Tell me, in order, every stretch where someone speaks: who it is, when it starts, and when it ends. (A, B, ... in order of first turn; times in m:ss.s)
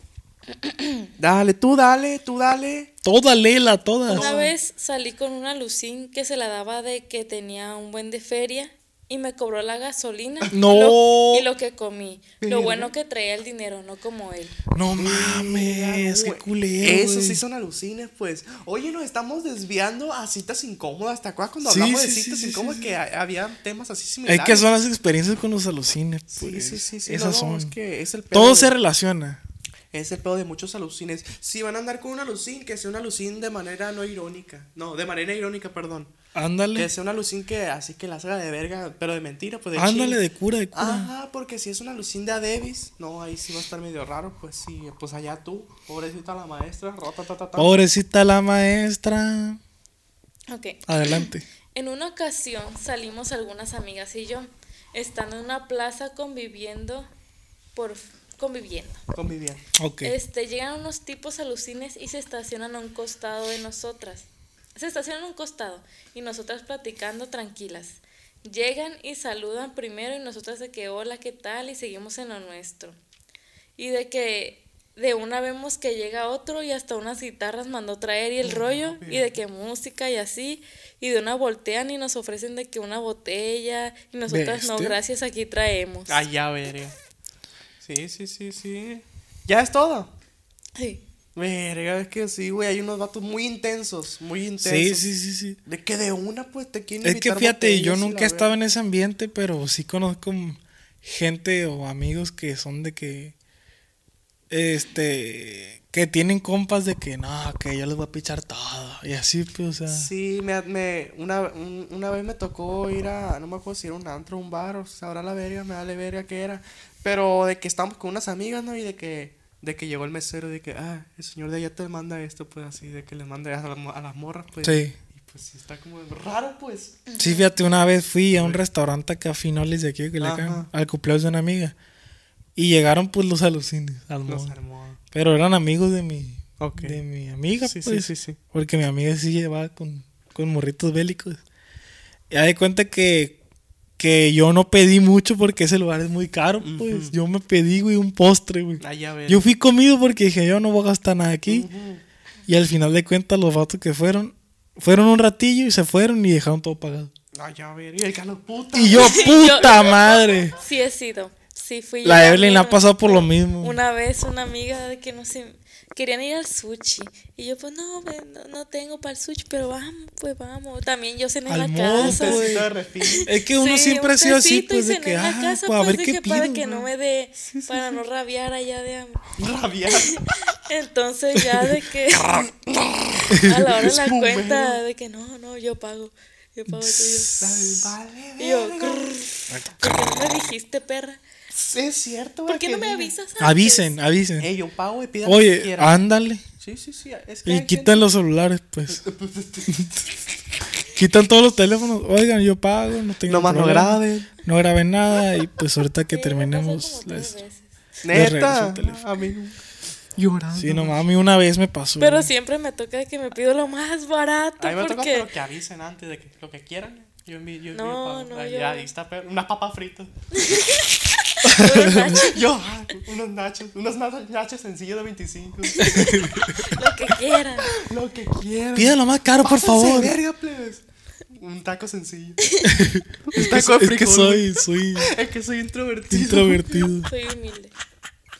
0:00.6-0:01.1 A
0:01.2-0:02.9 B
0:03.0-0:04.3 C
0:04.1-0:04.5 B
0:04.1-0:14.6 A
0:10.5-0:11.5 C
0:12.4-0:12.9 B
0:14.7-0:17.4 C
0:15.0-0:24.7 B
0:21.6-0:22.9 C
0:24.3-0:27.7 C
0:26.3-0:28.8 B
0:28.3-0:29.4 C
0:29.9-0:36.1 B
0:36.4-0:36.9 C
0:36.8-0:40.2 B
0:39.8-0:41.1 C
0:40.7-0:47.8 B
0:47.6-0:49.6 C
0:50.5-0:57.1 A
0:50.9-0:51.5 C
0:57.8-0:59.0 A
0:59.1-0:59.6 B
0:59.8-1:00.1 C
1:00.0-1:13.0 A
1:13.8-1:26.2 A
1:18.4-1:19.3 B
1:24.3-1:25.0 C
1:26.1-1:26.9 B
1:27.8-1:30.1 B
1:30.8-1:31.0 A
1:31.4-1:35.1 B
1:34.6-1:35.6 C
1:35.6-1:38.5 B
1:37.0-1:43.4 C
1:44.5-1:50.1 C
1:49.9-2:07.0 B
2:04.6-2:05.0 C
2:07.1-2:07.5 A
2:07.2-2:11.8 C
2:08.4-2:08.6 B
2:10.2-2:10.7 B
2:12.6-2:14.5 C
2:14.3-2:15.0 B
2:15.1-2:21.4 C
2:16.6-2:17.0 B
2:17.6-2:18.4 B
2:22.3-2:23.4 C
2:24.0-2:31.7 C
2:26.6-2:27.1 B
2:28.8-2:29.4 B
2:31.5-2:32.0 B
2:32.5-2:37.1 C
2:37.4-2:39.6 B
2:38.7-2:40.6 C
2:38.9-2:40.0 A
2:40.6-2:59.3 A
2:42.0-2:43.8 C
2:51.5-2:52.7 C
2:52.0-2:53.3 B
2:53.2-2:56.8 C
2:57.5-2:58.0 B
2:59.4-3:00.2 B
2:59.9-3:02.5 A
3:02.1-3:04.8 B
3:03.3-3:03.8 C
3:03.4-3:07.4 A
3:06.7-3:07.9 C
3:07.4-3:09.3 B
3:08.4-3:11.2 A
3:09.5-3:10.0 C
3:11.5-3:13.1 B
3:12.5-3:13.9 A
3:13.4-3:14.5 C
3:14.4-3:16.0 B
3:15.2-3:16.4 C
3:16.6-3:18.1 B
3:17.5-3:19.0 C
3:18.9-3:20.0 B
3:21.0-3:27.4 C
3:23.3-3:24.3 B
3:26.1-3:27.7 A
3:28.0-3:29.6 B
3:28.1-3:29.0 C
3:30.2-3:31.0 B
3:30.6-3:32.3 C
3:32.0-3:35.3 A
3:34.6-3:40.1 B
3:37.7-3:38.9 A
3:40.4-3:40.9 A
3:41.4-3:42.5 A
3:41.4-3:42.2 C
3:41.7-3:46.3 B
3:45.8-3:47.7 A
3:45.8-3:46.7 C
3:47.6-3:52.4 B
3:48.8-3:50.2 C
3:52.6-3:55.1 C
3:53.2-3:56.9 B
3:56.1-3:57.1 C
3:57.0-3:57.7 A